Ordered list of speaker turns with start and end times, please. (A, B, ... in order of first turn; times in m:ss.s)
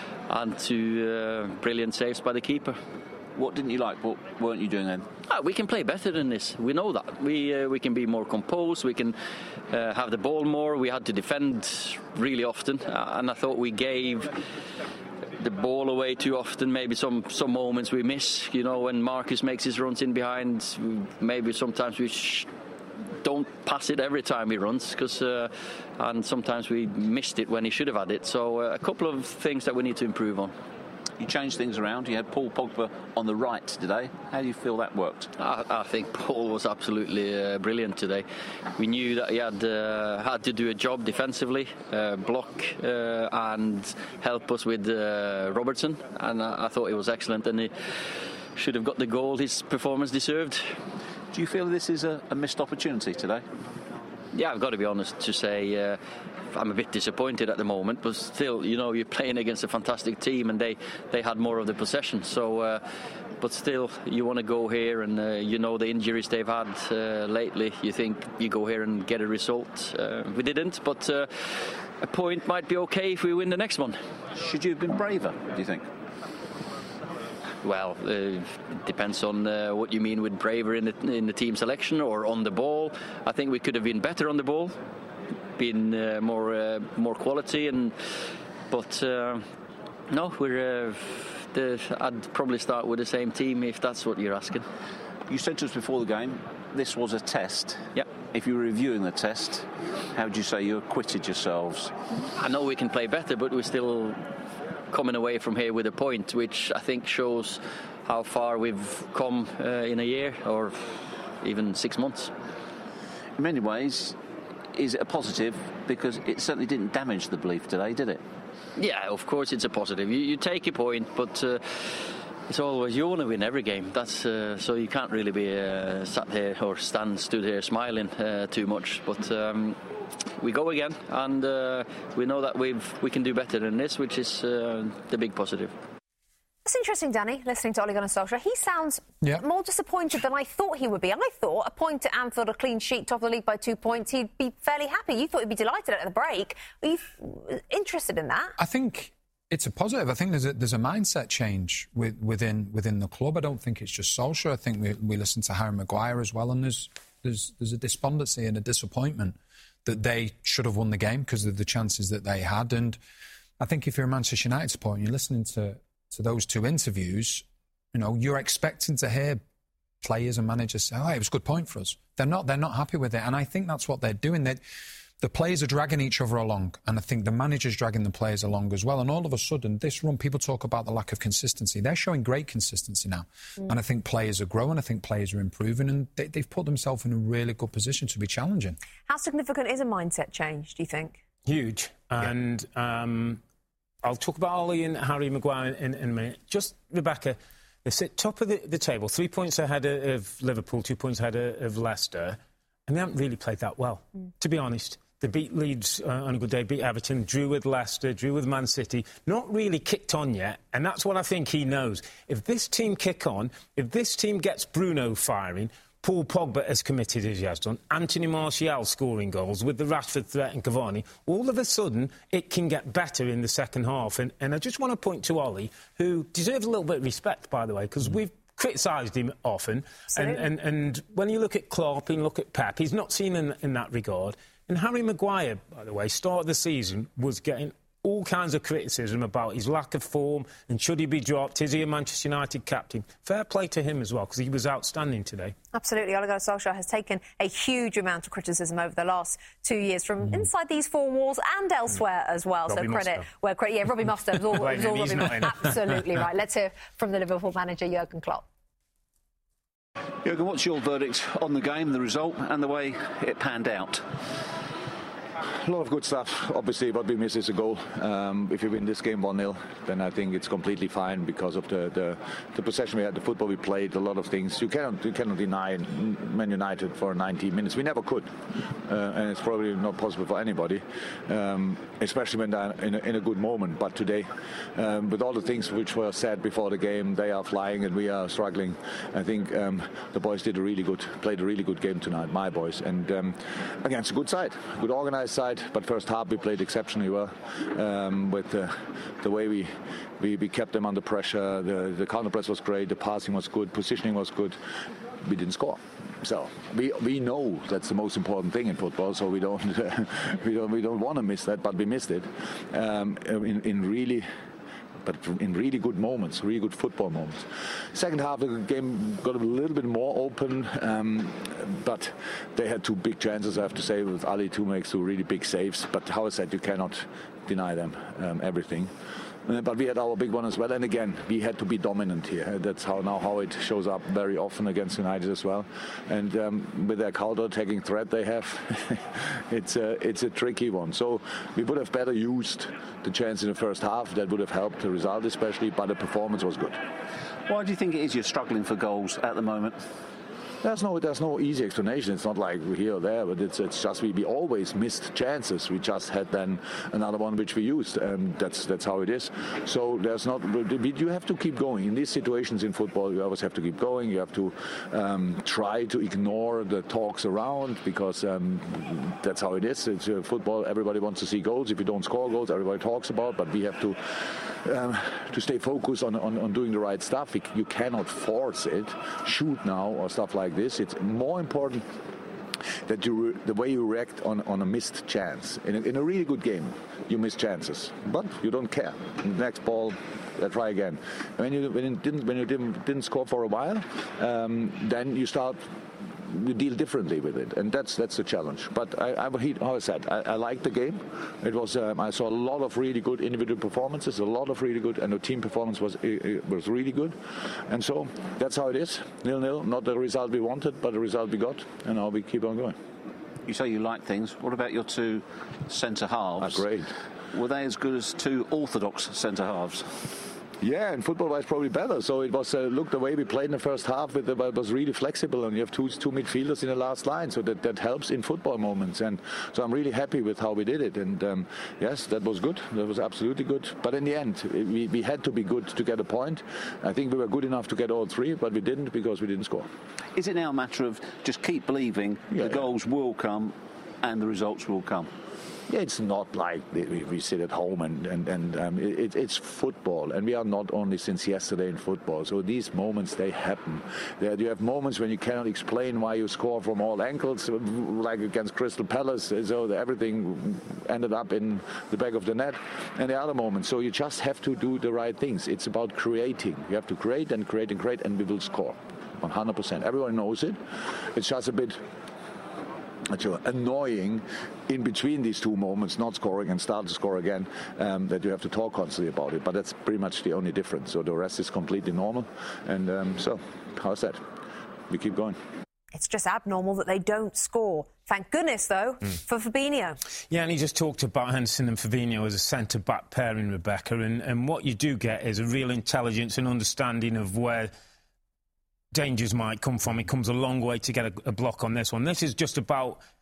0:00.3-0:02.8 A
0:03.4-0:05.1 B
0:05.3-0:09.2 A
0:09.7-0:14.4 A
0:15.4-0:22.5 A
0:23.2-0:30.5 A
0:31.2-0:35.3 B
0:35.4-0:38.3 A
0:38.8-0:47.7 A
0:48.6-0:50.7 A
0:51.3-0:53.4 B
0:54.3-0:56.0 A
0:56.5-1:02.8 A
1:03.4-1:14.0 A
1:14.3-1:15.9 B
1:17.6-1:24.8 A
1:25.6-1:28.0 A
1:28.7-1:29.5 A
1:30.1-1:34.6 A
1:35.3-1:41.9 B
1:42.4-1:44.2 A
1:44.9-1:50.8 A
1:51.4-1:52.3 A
1:53.4-1:54.2 B
1:54.7-1:58.2 B
1:58.8-2:09.8 A
2:10.4-2:15.7 A
2:16.6-2:28.6 C
2:28.6-2:43.0 D
2:43.6-2:49.4 D
2:50.0-2:54.6 D
2:55.2-3:08.8 D
3:09.1-3:11.2 C
3:11.5-3:13.4 E
3:14.0-4:05.6 E
3:50.1-3:50.4 C
4:05.7-4:18.4 C
4:12.7-4:13.3 E
4:14.3-4:15.8 E
4:20.2-4:24.0 B
4:25.6-5:04.6 F
5:05.2-5:14.3 F
5:15.0-5:28.9 F
5:29.4-5:46.8 F
5:47.5-5:49.8 B
5:50.6-6:21.9 F
6:22.8-6:35.6 F
6:36.2-6:52.8 F
6:53.4-6:56.7 B
6:56.4-6:56.9 F
6:57.3-6:59.9 B
7:00.6-7:19.7 F
7:20.1-7:25.1 B
7:22.3-7:22.7 F
7:25.7-7:51.8 F
7:53.1-8:04.2 F
8:04.9-8:05.4 F
8:05.9-8:10.0 C
8:10.3-8:17.7 E
8:18.9-8:23.0 E